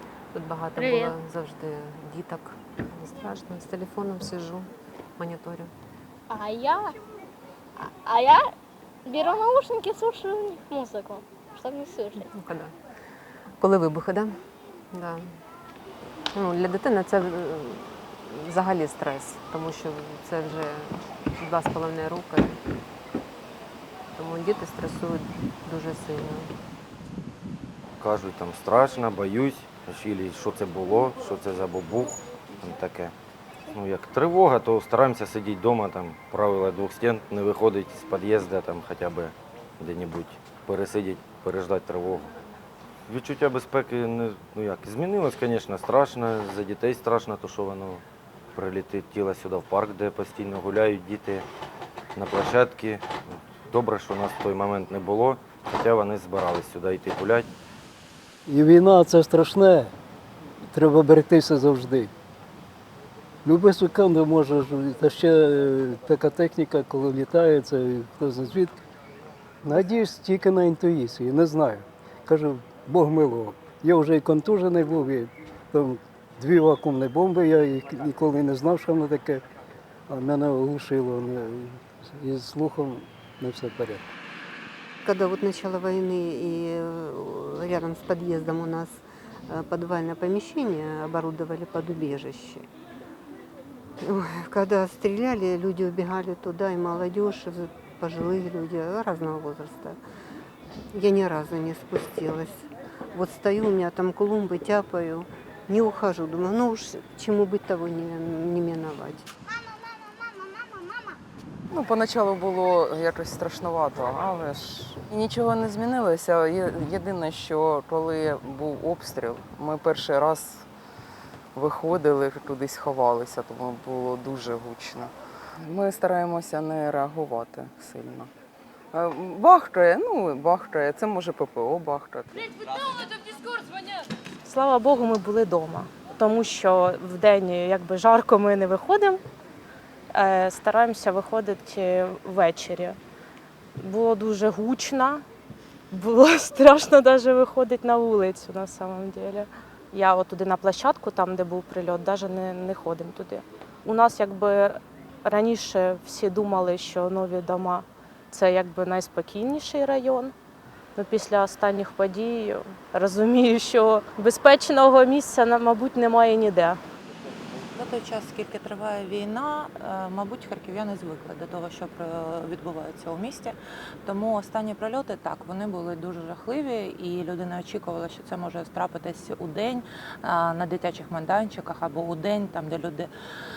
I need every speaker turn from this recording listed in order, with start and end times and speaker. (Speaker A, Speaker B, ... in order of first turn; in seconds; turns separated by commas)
Speaker A: 0.3-5.7, Speaker B: 0.8-1.1, Speaker B: 6.3-7.0, Speaker B: 7.8-8.5, Speaker B: 9.0-12.3, Speaker A: 12.2-12.7, Speaker A: 13.6-14.4, Speaker A: 14.9-15.3, Speaker A: 16.3-22.6, Speaker A: 24.1-26.5, Speaker C: 28.0-33.1, Speaker C: 33.7-42.3, Speaker C: 43.1-48.0, Speaker C: 48.5-51.5, Speaker C: 52.1-57.5, Speaker D: 58.5-59.9, Speaker D: 60.7-62.1, Speaker D: 63.4-68.8, Speaker D: 69.6-79.4, Speaker D: 80.1-84.0, Speaker E: 85.0-88.9, Speaker E: 89.5-92.6, Speaker E: 94.0-100.0, Speaker E: 100.9-109.3, Speaker F: 111.7-120.7, Speaker F: 121.5-128.3, Speaker F: 128.9-133.0, Speaker G: 134.4-139.2, Speaker G: 140.1-143.0, Speaker G: 143.8-145.2, Speaker G: 145.9-160.3, Speaker G: 160.9-166.8, Speaker H: 167.7-183.1